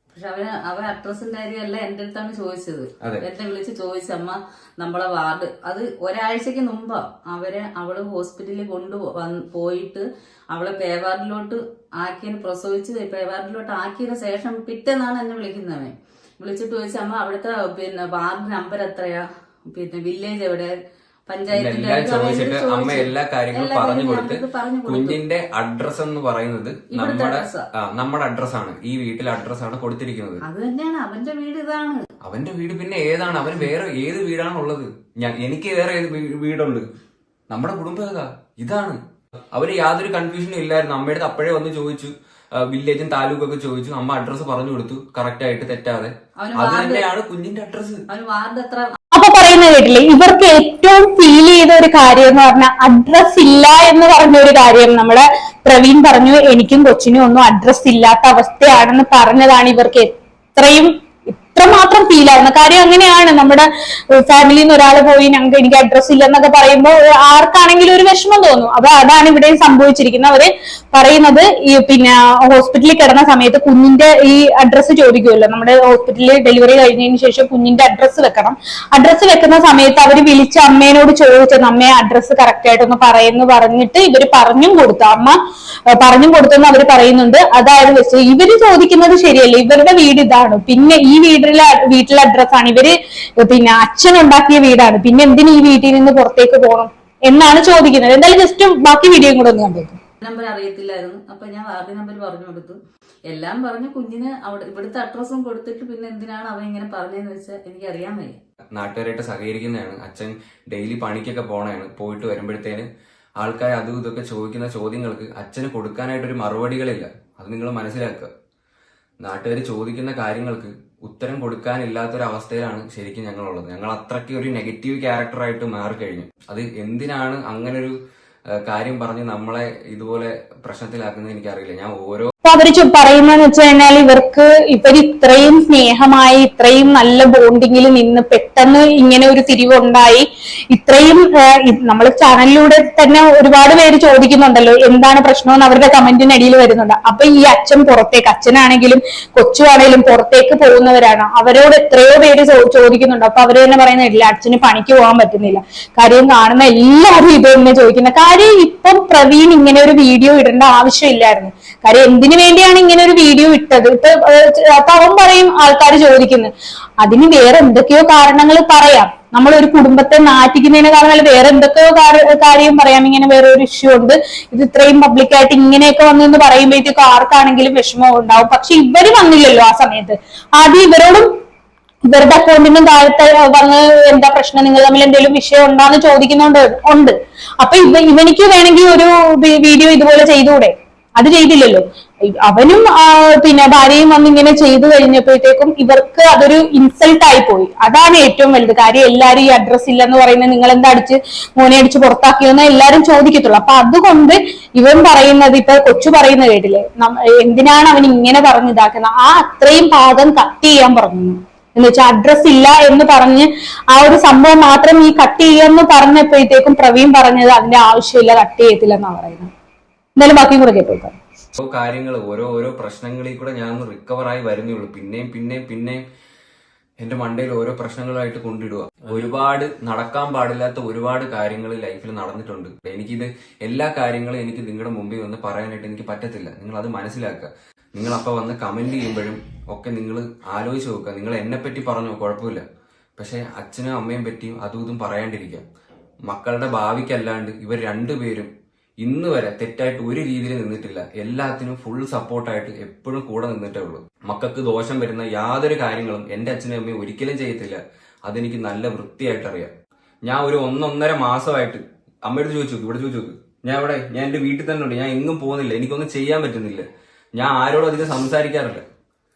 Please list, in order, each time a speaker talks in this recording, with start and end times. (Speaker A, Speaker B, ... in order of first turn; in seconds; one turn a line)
Speaker A: 0.1-20.7
Speaker A: 21.3-25.2
Speaker B: 21.5-30.4
Speaker A: 26.9-27.7
Speaker A: 30.4-32.0
Speaker B: 32.2-36.9
Speaker B: 37.5-39.0
Speaker B: 39.5-48.0
Speaker A: 46.4-47.0
Speaker A: 48.1-49.0
Speaker C: 49.1-85.4
Speaker C: 85.9-100.0
Speaker A: 100.2-102.8
Speaker A: 103.3-108.4
Speaker B: 108.7-112.9
Speaker B: 113.4-118.3
Speaker B: 119.2-128.0
Speaker B: 128.6-132.3
Speaker C: 132.4-181.3
Speaker C: 182.0-219.5
Speaker C: 220.2-221.2
Speaker B: 221.6-226.0
Speaker B: 227.0-242.6
Speaker B: 243.2-245.6
Speaker B: 246.3-248.5
Speaker B: 249.0-259.7
Speaker B: 260.3-268.9